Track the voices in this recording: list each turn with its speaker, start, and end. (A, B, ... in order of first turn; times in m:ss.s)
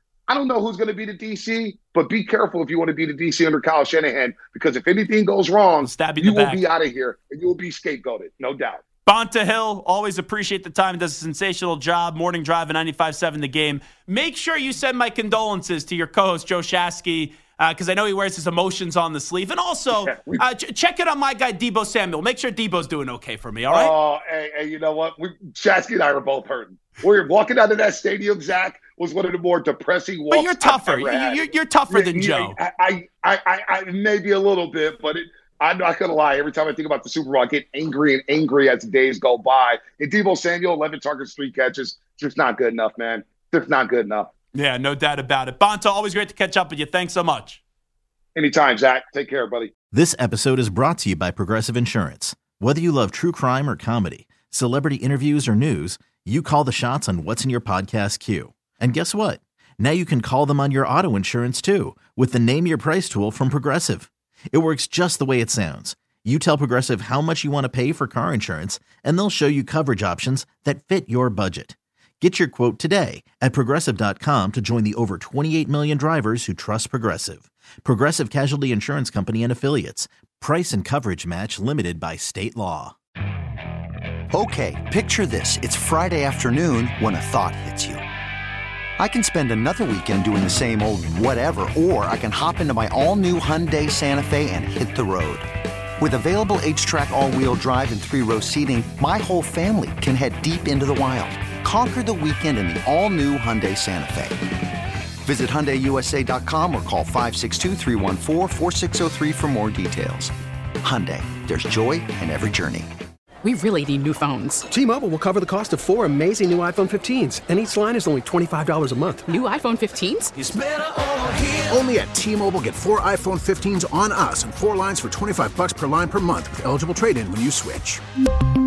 0:00.3-0:08.8 A
0:05.8-0:06.6 B
0:09.0-0:23.9 B
0:19.9-0:20.4 A
0:23.7-0:44.3 A
0:30.3-0:32.6 B
0:44.5-0:47.6 B
0:48.3-0:49.7 A
0:49.9-1:22.9 C
1:24.3-1:28.0 D
1:29.0-1:35.5 D
1:36.0-1:44.4 D
1:45.2-1:52.9 D
1:53.4-1:54.6 E
1:54.7-1:59.4 F
1:59.3-2:00.3 E
2:01.6-2:08.0 G